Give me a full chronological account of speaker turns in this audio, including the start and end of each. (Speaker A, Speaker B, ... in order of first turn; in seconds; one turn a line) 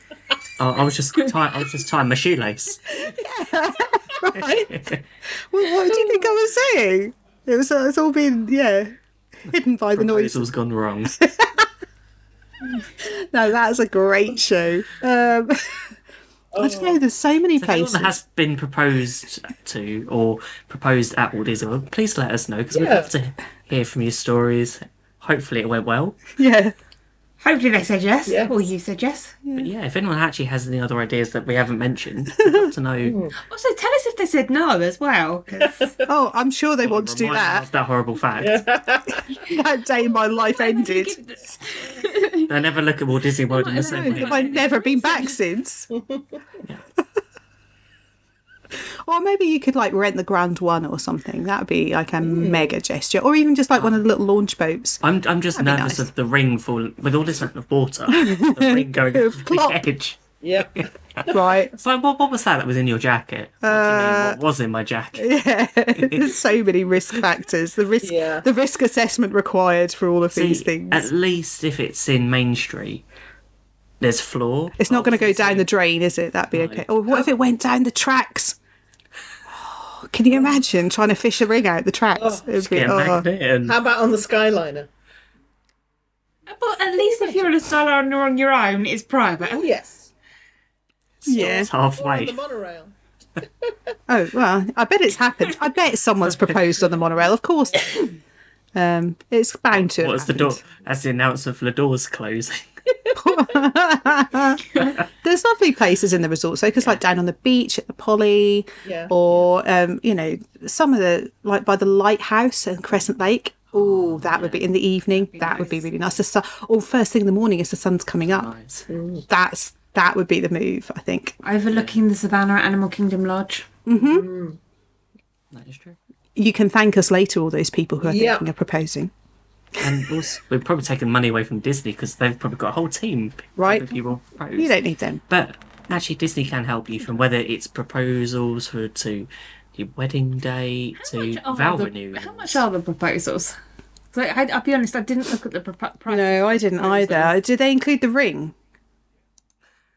Speaker A: 0.6-3.1
Speaker B: 2.9-4.7
Speaker A: 4.3-5.0
Speaker B: 5.4-8.9
Speaker B: 9.5-10.5
Speaker A: 9.9-11.2
Speaker B: 11.2-11.7
Speaker B: 13.0-16.0
Speaker C: 16.5-17.0
Speaker B: 16.6-18.2
Speaker A: 17.6-26.4
Speaker C: 22.7-23.1
Speaker B: 26.4-26.7
Speaker D: 27.4-29.4
Speaker C: 28.3-28.7
Speaker B: 29.4-29.7
Speaker A: 29.6-33.2
Speaker C: 33.0-33.3
Speaker D: 33.4-35.9
Speaker C: 35.6-36.0
Speaker B: 36.1-37.7
Speaker A: 36.8-38.6
Speaker C: 38.4-39.3
Speaker B: 39.4-41.2
Speaker D: 40.5-42.5
Speaker A: 42.5-44.6
Speaker D: 43.5-45.4
Speaker B: 43.9-45.9
Speaker B: 49.0-55.0
Speaker C: 52.3-52.7
Speaker A: 53.8-54.0
Speaker A: 55.0-65.4
Speaker B: 55.5-56.1
Speaker B: 58.1-59.8
Speaker C: 60.4-61.4
Speaker B: 61.3-61.7
Speaker B: 63.6-64.4
Speaker B: 65.2-71.1
Speaker A: 66.0-66.4
Speaker C: 68.0-68.5
Speaker A: 70.3-73.0
Speaker A: 74.0-75.7
Speaker B: 74.8-78.6
Speaker A: 76.5-76.9
Speaker B: 79.5-83.3
Speaker C: 82.2-82.5
Speaker A: 82.6-83.8
Speaker C: 83.7-84.9
Speaker D: 86.5-89.7
Speaker C: 87.0-87.5
Speaker C: 89.4-90.1
Speaker A: 91.2-92.4
Speaker B: 91.2-91.7
Speaker C: 91.4-92.9
Speaker C: 93.4-93.7
Speaker B: 94.1-98.1
Speaker B: 98.7-100.6
Speaker A: 99.7-102.7
Speaker B: 103.2-118.5
Speaker C: 108.8-109.1
Speaker A: 113.7-114.7
Speaker D: 115.1-115.9
Speaker A: 118.3-118.9
Speaker C: 118.9-119.2
Speaker B: 119.3-121.4
Speaker D: 121.4-123.7
Speaker A: 121.7-122.0
Speaker B: 123.9-124.3
Speaker C: 124.0-124.6
Speaker A: 125.5-126.0
Speaker B: 126.4-129.1
Speaker C: 128.0-128.4
Speaker A: 129.8-134.8
Speaker B: 133.6-133.9
Speaker B: 134.6-135.2
Speaker A: 135.3-142.6
Speaker D: 141.0-143.6
Speaker D: 144.1-147.3
Speaker B: 146.1-148.5